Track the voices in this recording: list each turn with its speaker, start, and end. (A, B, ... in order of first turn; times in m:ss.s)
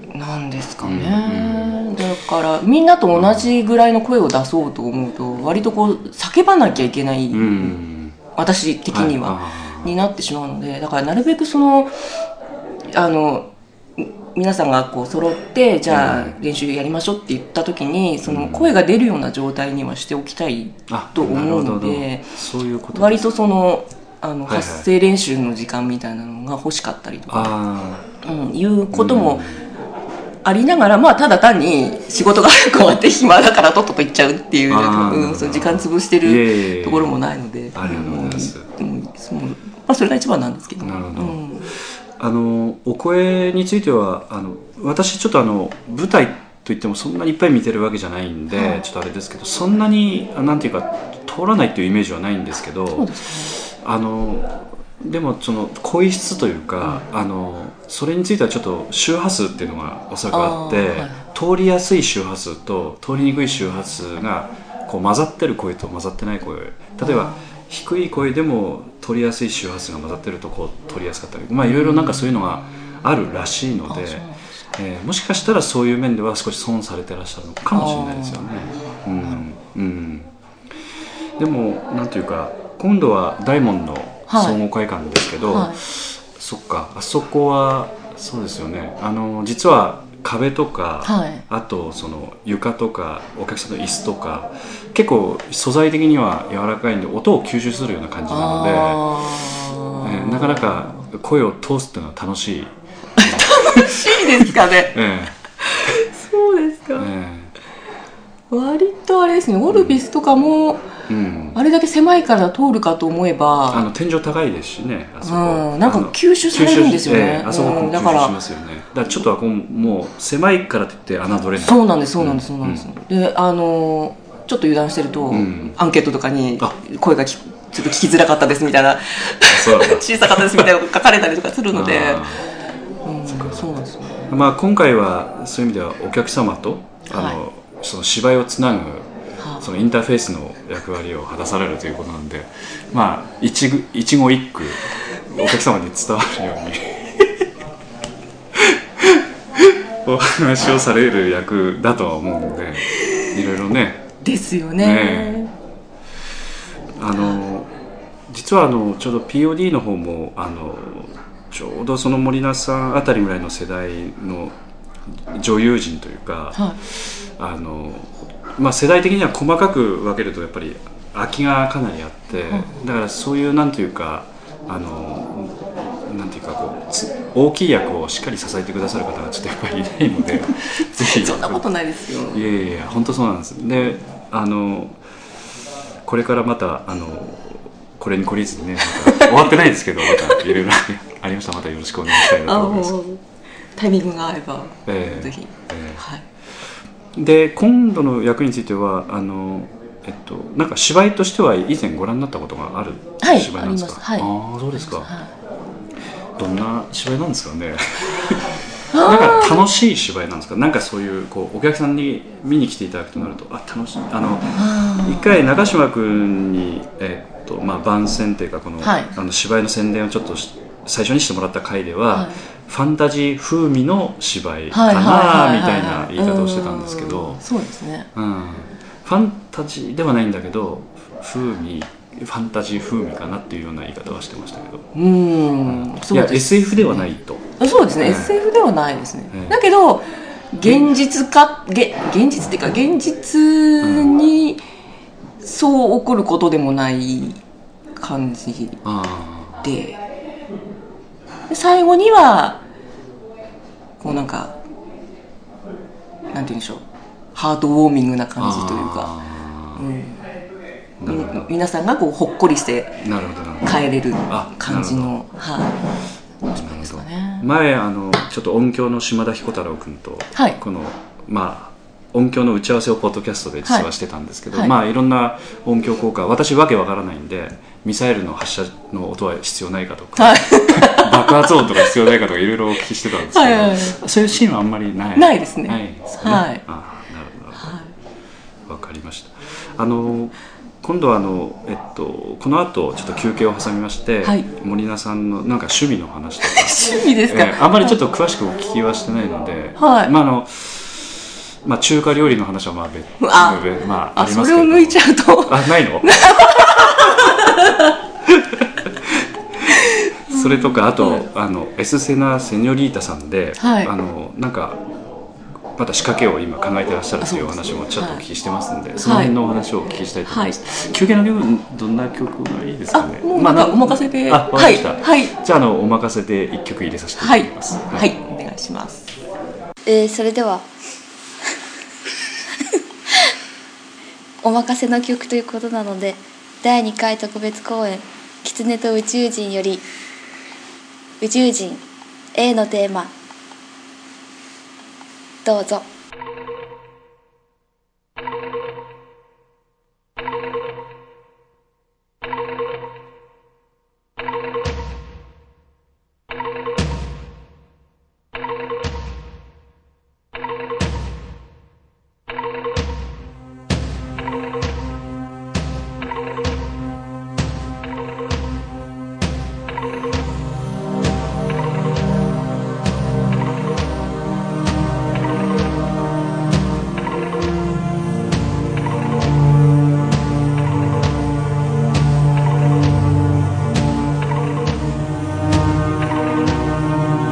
0:00.1-0:07.7 A
0:00.8-0:01.9 B
0:03.1-0:03.5 B
0:07.3-0:08.2 B
0:08.3-0:11.9 A
0:08.9-0:09.9 B
0:12.9-0:22.3 A
0:15.9-0:16.4 B
0:18.2-0:18.7 B
0:20.9-0:23.3 B
0:22.9-0:27.5 A
0:24.5-0:24.9 B
0:27.3-0:28.0 B
0:28.2-0:29.6 A
0:28.9-0:29.6 B
0:30.4-0:41.7 A
0:34.7-0:37.2 B
0:37.7-0:38.7 B
0:40.8-0:41.5 B
0:42.2-1:20.3 B
0:48.5-0:48.8 A
0:52.9-0:53.6 A
1:00.3-1:01.2 A
1:07.0-1:07.4 A
1:11.6-1:12.9 A
1:13.9-1:14.4 A
1:17.7-1:19.4 A
1:21.4-1:45.3 B
1:24.3-1:24.6 A
1:25.5-1:25.8 A
1:31.0-1:31.4 A
1:38.3-1:41.0 A
1:43.2-1:45.0 A
1:45.6-1:47.1 A
1:47.0-1:47.5 B
1:48.5-1:50.8 A
1:49.7-1:50.0 B
1:51.1-1:51.6 B
1:51.5-1:53.8 A
1:53.7-2:02.9 B
1:55.2-1:58.4 A
2:01.6-2:12.5 A
2:05.3-2:05.8 B
2:09.4-2:10.7 B
2:11.7-2:12.4 B
2:13.0-2:14.3 A
2:13.2-2:13.7 B
2:14.3-2:19.1 B
2:17.1-2:17.4 A
2:19.4-2:19.7 A
2:19.6-2:27.5 B
2:28.5-2:34.1 B
2:33.0-2:33.3 A
2:34.2-2:35.5 A
2:34.8-2:35.4 B
2:37.0-2:37.7 B
2:37.1-2:37.4 A
2:38.3-2:44.6 B
2:45.2-3:01.6 B
2:46.5-2:46.8 A
2:52.5-2:52.8 A
3:01.0-3:02.4 A
3:02.3-3:05.0 B
3:06.0-3:13.0 B
3:09.0-3:09.5 A
3:12.1-3:13.2 A
3:13.8-3:16.2 A
3:14.9-3:16.0 B
3:17.1-3:25.1 B
3:23.2-3:25.3 A
3:26.4-3:47.4 B
3:28.9-3:29.6 A
3:34.5-3:35.4 A
3:38.8-3:39.1 A
3:42.1-3:42.4 A
3:44.7-3:48.1 A
3:48.1-3:54.9 B
3:54.9-3:57.1 A
3:55.6-3:57.4 B
3:57.6-4:04.6 A
3:58.0-3:58.4 B
3:59.3-3:59.6 B
4:03.8-4:04.2 B
4:05.4-4:07.4 A
4:08.0-4:08.8 A
4:08.8-4:09.6 B
4:09.6-4:10.0 A
4:11.5-4:12.6 A
4:14.0-4:14.6 A
4:16.3-4:16.8 A
4:17.3-4:19.1 A
4:18.4-4:19.8 B
4:19.7-4:20.2 A
4:21.0-4:21.5 B
4:21.0-4:23.0 A
4:23.0-4:25.1 B
4:23.6-4:25.9 A
4:26.4-4:27.4 A
4:26.5-4:47.8 B
4:40.2-4:41.9 A
4:43.2-4:44.0 A
4:45.2-4:46.6 A
4:47.6-4:47.9 A
4:48.7-5:07.4 B
4:56.4-4:58.0 A
4:59.8-5:00.1 A
5:03.2-5:07.9 A
5:08.2-5:14.8 B
5:09.8-5:11.2 A
5:13.6-5:13.9 A
5:15.7-5:28.1 B
5:17.2-5:18.2 A
5:19.0-5:19.3 A
5:20.3-5:20.6 A
5:22.9-5:25.3 A
5:27.2-5:29.1 A
5:29.8-5:30.6 C
5:34.4-5:39.8 C
5:41.2-5:41.8 C
5:42.3-5:43.1 C
5:45.4-5:45.8 C